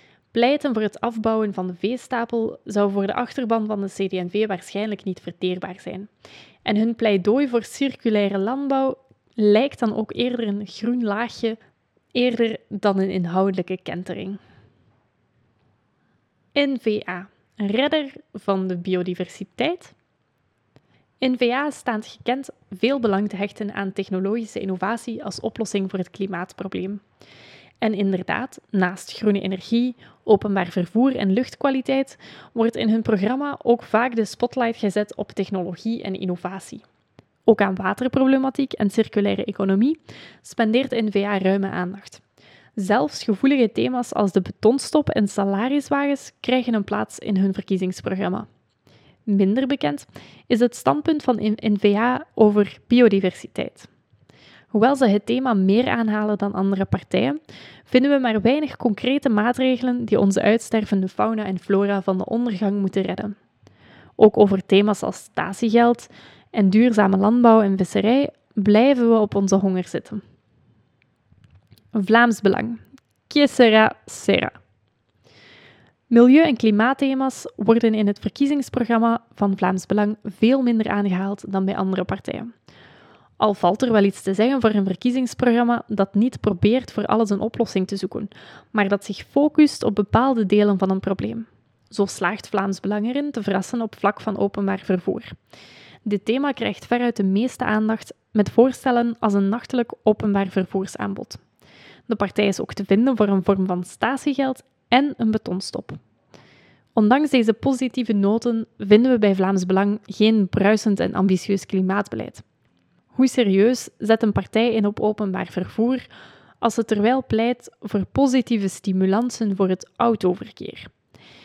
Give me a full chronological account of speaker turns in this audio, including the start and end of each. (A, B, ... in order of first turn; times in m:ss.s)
0:00.3-0:06.1 A
0:06.6-0:11.6 A
0:12.1-0:14.4 A
0:16.6-0:20.0 A
0:21.2-0:27.0 A
0:27.8-0:36.8 A
0:37.5-0:42.2 A
0:42.8-0:48.5 A
0:49.3-0:53.9 A
0:54.7-1:03.4 A
1:04.2-1:10.2 A
1:11.9-1:14.6 A
1:16.1-1:22.5 A
1:23.4-1:35.4 A
1:36.0-1:41.4 A
1:42.1-1:46.0 A
1:47.0-1:52.4 A
1:53.1-1:56.0 A
1:56.6-2:00.9 A